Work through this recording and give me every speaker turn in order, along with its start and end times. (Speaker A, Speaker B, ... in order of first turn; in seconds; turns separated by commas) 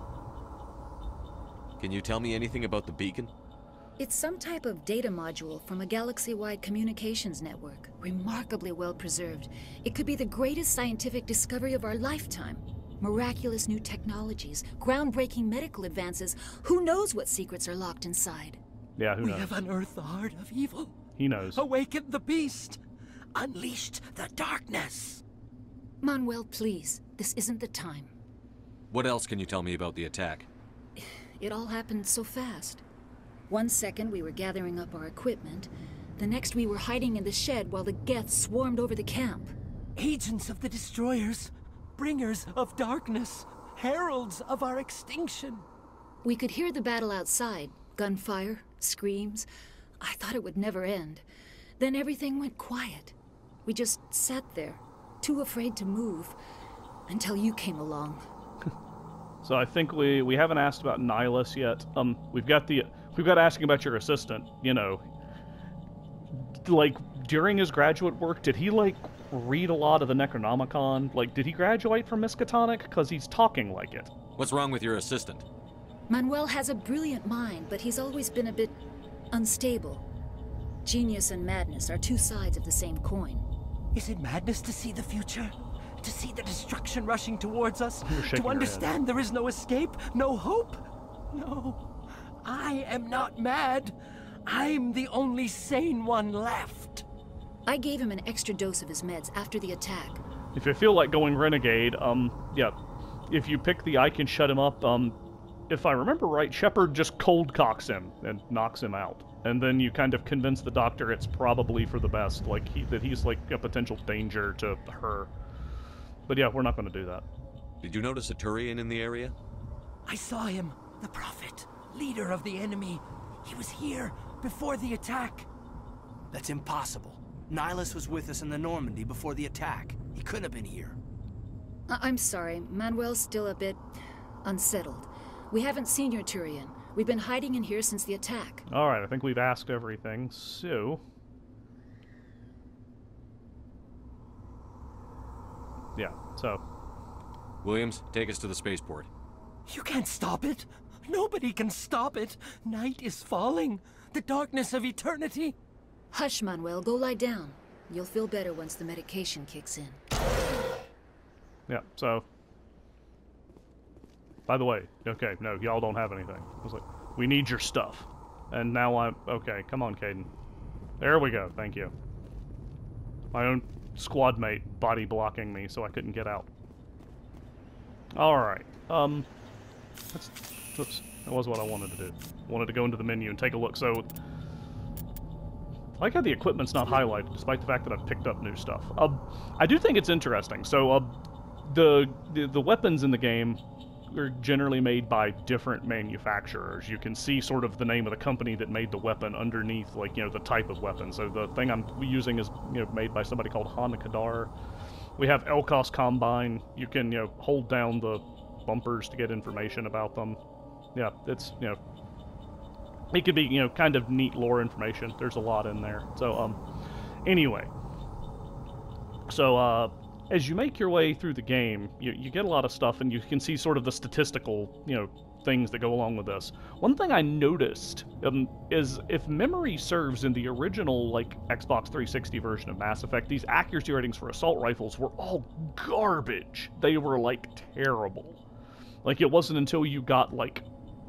Speaker A: 1.8-3.3, Speaker B: 4.0-18.6, Speaker C: 19.0-19.6, Speaker D: 19.2-21.0, Speaker C: 21.2-21.6, Speaker D: 21.5-22.8, Speaker D: 23.3-25.2, Speaker B: 26.0-28.1, Speaker A: 28.9-30.5, Speaker B: 31.4-32.8, Speaker B: 33.5-39.5, Speaker D: 40.0-45.6, Speaker B: 46.2-49.5, Speaker B: 50.0-51.2, Speaker B: 51.8-53.1, Speaker B: 53.6-56.4, Speaker B: 57.1-58.2, Speaker C: 59.4-65.0, Speaker C: 66.3-74.1, Speaker A: 74.4-75.4, Speaker B: 76.1-78.8, Speaker B: 79.3-80.0, Speaker B: 80.8-83.5, Speaker D: 83.9-90.8, Speaker C: 88.0-89.0, Speaker D: 91.3-91.8, Speaker D: 92.4-93.9, Speaker D: 94.5-97.0, Speaker B: 97.7-100.2, Speaker C: 100.5-102.7, Speaker C: 103.3-105.2, Speaker C: 105.7-115.3, Speaker C: 116.3-117.2, Speaker A: 117.8-119.3, Speaker D: 120.0-125.5, Speaker E: 126.3-131.0, Speaker B: 131.9-133.8, Speaker B: 134.4-138.6, Speaker C: 138.7-141.0, Speaker C: 145.9-146.6, Speaker A: 147.6-149.1, Speaker D: 149.7-155.5, Speaker B: 156.1-160.0, Speaker C: 161.7-162.2, Speaker C: 164.5-170.3, Speaker C: 171.0-171.9, Speaker C: 173.3-176.5, Speaker C: 178.1-179.3, Speaker C: 180.1-184.1, Speaker C: 186.0-204.5, Speaker C: 205.2-210.4, Speaker C: 210.9-211.8, Speaker C: 213.1-216.6, Speaker C: 217.2-217.7, Speaker C: 219.3-238.4, Speaker C: 239.0-240.6